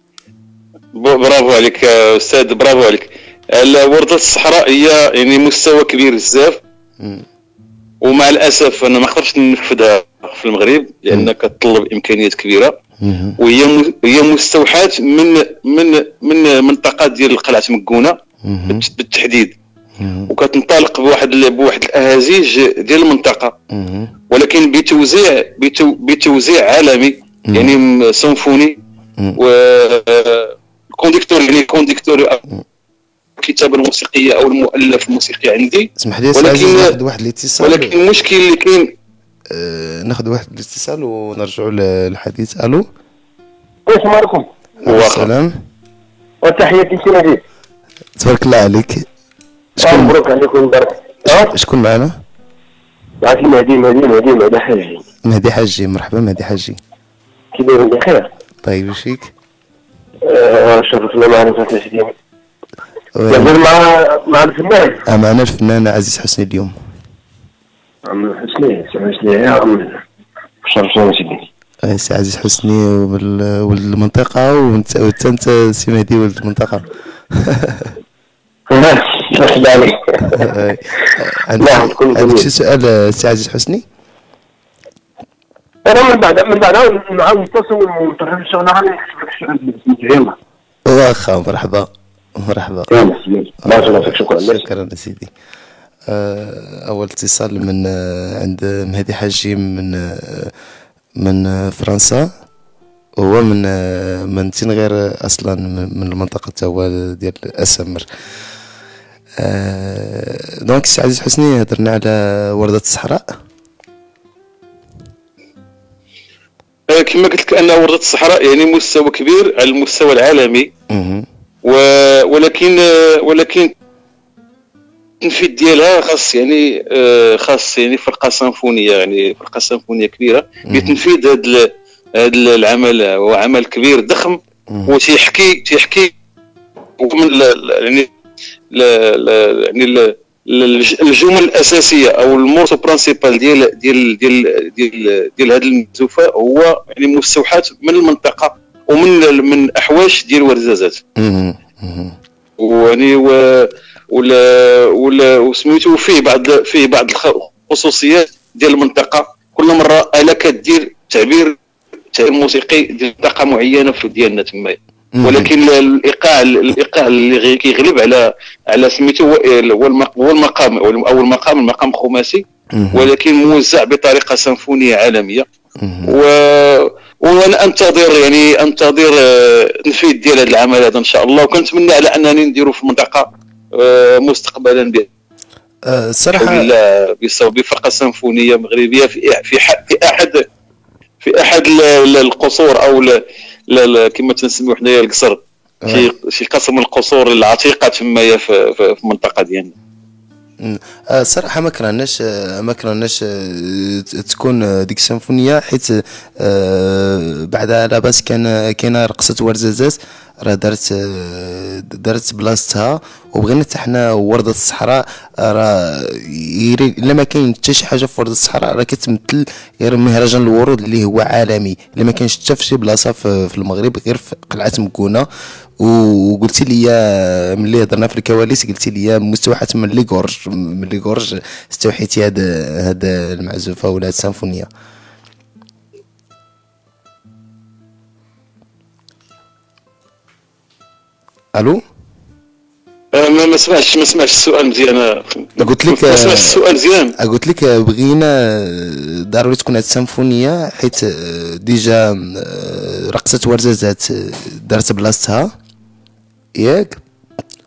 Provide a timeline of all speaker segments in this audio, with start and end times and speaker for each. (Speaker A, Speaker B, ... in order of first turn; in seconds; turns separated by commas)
Speaker A: 0.9-6.6, Speaker A: 8.0-12.7, Speaker B: 13.0-13.4, Speaker A: 13.4-18.2, Speaker B: 18.4-18.8, Speaker A: 18.7-19.6, Speaker B: 20.0-20.3, Speaker A: 20.3-23.5, Speaker B: 23.7-24.1, Speaker A: 24.3-28.8, Speaker A: 29.4-32.4, Speaker A: 33.4-37.0, Speaker B: 36.0-38.0, Speaker A: 37.6-38.9, Speaker B: 39.5-42.9, Speaker C: 43.9-44.5, Speaker B: 44.8-45.5, Speaker A: 44.9-45.3, Speaker C: 46.4-47.4, Speaker B: 48.2-49.0, Speaker B: 49.8-50.2, Speaker C: 49.8-51.5, Speaker B: 51.3-52.1, Speaker C: 53.2-55.0, Speaker B: 55.2-56.8, Speaker C: 57.5-58.3, Speaker B: 58.6-59.3, Speaker C: 60.2-62.1, Speaker B: 63.2-63.6, Speaker C: 63.3-65.0, Speaker B: 65.1-66.7, Speaker C: 68.0-70.0, Speaker C: 70.7-71.4, Speaker B: 71.8-77.9, Speaker C: 78.7-80.6, Speaker B: 80.3-83.8, Speaker C: 81.6-82.5, Speaker C: 85.8-90.3, Speaker B: 90.9-93.1, Speaker C: 92.9-94.6, Speaker B: 93.6-95.3, Speaker B: 96.1-100.5, Speaker B: 101.2-102.3, Speaker B: 103.2-108.0, Speaker B: 109.4-113.3, Speaker A: 116.9-120.7, Speaker B: 120.9-121.3, Speaker A: 121.6-123.7, Speaker A: 125.2-136.1, Speaker B: 130.7-131.0, Speaker B: 134.7-134.9, Speaker A: 137.0-138.1, Speaker A: 138.7-151.0, Speaker B: 151.2-152.2, Speaker A: 152.6-161.6, Speaker A: 162.1-175.4, Speaker B: 165.2-165.5, Speaker B: 172.7-173.1, Speaker B: 175.8-176.1, Speaker A: 176.0-185.1, Speaker B: 185.8-186.7, Speaker A: 186.3-190.4, Speaker A: 191.2-193.2, Speaker A: 193.7-199.7, Speaker B: 200.6-225.3, Speaker B: 225.8-234.7, Speaker B: 241.6-241.8, Speaker A: 243.1-247.2, Speaker B: 245.6-246.6, Speaker B: 247.2-255.5, Speaker B: 256.6-257.0